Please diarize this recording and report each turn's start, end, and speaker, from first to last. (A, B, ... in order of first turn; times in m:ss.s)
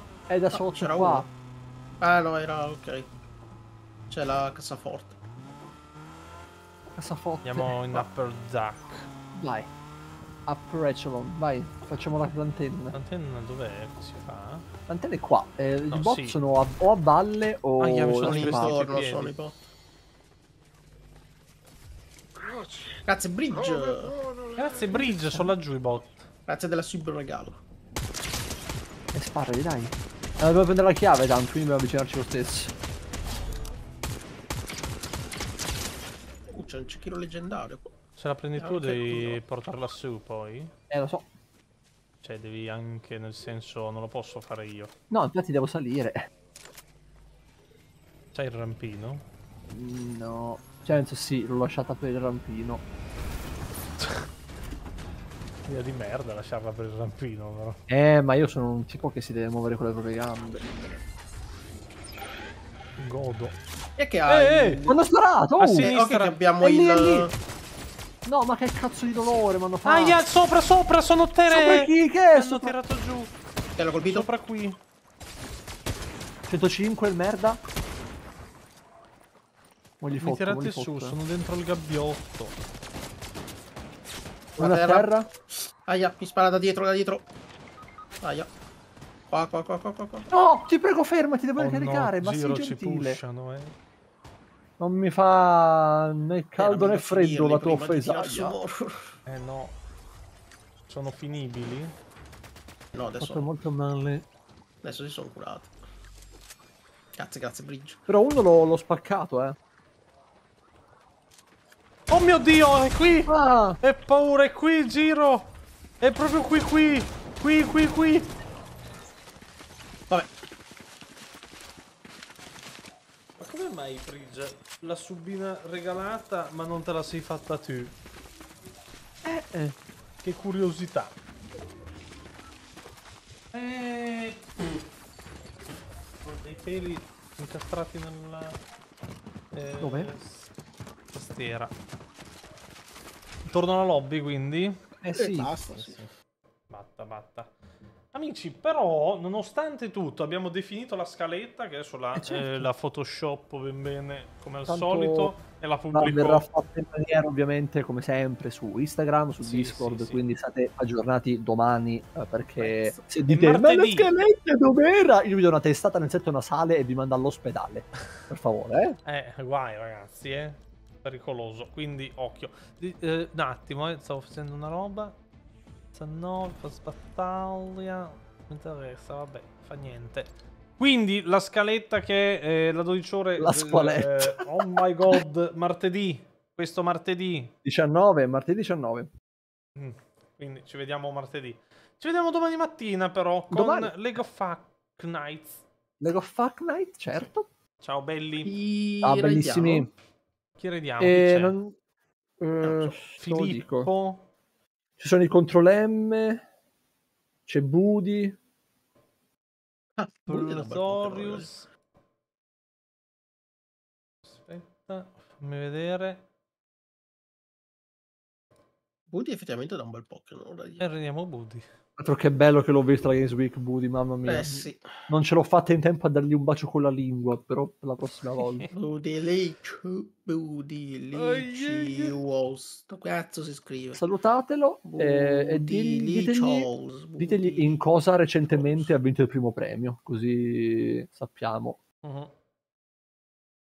0:00.3-0:01.3 A
0:00.5-0:01.3 B
0:02.0-0:03.1 B
0:04.1-0:05.2 B
0:07.0-0:08.0 A
0:07.4-0:09.1 C
0:09.4-0:09.7 A
0:10.5-0:13.0 A
0:12.9-0:14.7 C
0:14.9-0:18.9 A
0:15.9-0:16.4 C
0:17.8-0:19.3 C
0:18.2-0:19.6 B
0:23.0-0:24.2 B
0:24.4-0:25.5 A
0:24.6-0:26.3 C
0:26.5-0:27.6 B
0:29.1-0:32.7 A
0:36.5-0:38.0 B
0:38.2-0:40.7 C
0:38.6-0:39.4 B
0:40.9-0:41.3 A
0:42.2-0:44.9 C
0:45.1-0:46.3 A
0:48.3-0:49.2 C
0:49.7-0:52.8 A
0:54.0-0:54.3 C
0:55.6-0:57.8 C
0:57.9-1:01.0 A
1:03.0-1:03.6 C
1:04.0-1:05.0 B
1:04.3-1:04.8 C
1:04.9-1:05.9 A
1:05.6-1:06.4 C
1:05.8-1:07.3 B
1:06.6-1:07.3 A
1:08.2-1:10.2 A
1:09.8-1:13.3 C
1:11.5-1:12.7 A
1:13.8-1:14.3 B
1:14.0-1:14.8 C
1:16.5-1:17.6 A
1:20.0-1:21.2 A
1:20.2-1:22.6 C
1:24.6-1:25.3 A
1:24.6-1:25.1 B
1:25.8-1:27.3 B
1:28.2-1:28.5 B
1:29.3-1:30.3 B
1:30.3-1:33.2 A
1:31.6-1:33.7 C
1:34.8-1:38.6 A
1:36.6-1:39.2 B
1:39.3-1:39.8 C
1:40.9-1:42.0 C
1:42.9-1:43.5 B
1:43.2-1:44.2 A
1:44.8-1:45.7 B
1:47.2-1:48.0 B
1:48.1-1:49.6 A
1:52.1-1:58.3 C
1:53.3-1:53.8 A
2:03.4-2:07.9 C
2:09.2-2:09.8 A
2:10.2-2:11.1 C
2:13.5-2:14.8 C
2:16.2-2:18.6 C
2:19.5-2:20.5 C
2:19.8-2:20.1 A
2:21.1-2:21.7 C
2:23.5-2:24.8 C
2:25.0-2:25.6 A
2:25.1-2:26.0 B
2:25.7-2:26.1 C
2:26.7-2:27.5 C
2:28.1-2:36.5 C
2:32.2-2:32.7 A
2:34.7-2:35.4 A
2:35.9-2:49.0 A
2:39.4-2:40.2 C
2:42.6-2:43.0 B
2:43.2-2:44.1 C
2:49.0-2:55.2 C
2:55.9-3:07.5 C
3:03.4-3:05.2 A
3:07.6-3:09.1 A
3:09.8-3:15.6 C
3:13.5-3:14.1 A
3:16.0-3:17.5 A
3:17.1-3:18.5 C
3:18.4-3:19.9 B
3:19.0-3:19.9 A
3:20.6-3:21.6 C
3:21.0-3:21.8 A
3:22.4-3:23.9 A
3:22.6-3:23.0 B
3:23.2-3:24.2 C
3:25.0-3:26.4 A
3:27.5-3:28.4 A
3:30.0-3:31.5 B
3:30.3-3:31.7 C
3:34.3-3:36.2 C
3:39.1-3:40.9 B
3:40.8-3:41.6 C
3:42.0-3:48.7 A
3:44.2-3:45.1 B
3:48.4-3:48.7 C
3:48.7-3:54.0 B
3:51.2-3:52.1 A
3:53.9-4:01.8 A
3:54.8-3:57.8 B
3:58.5-3:59.0 B
4:02.0-4:02.3 C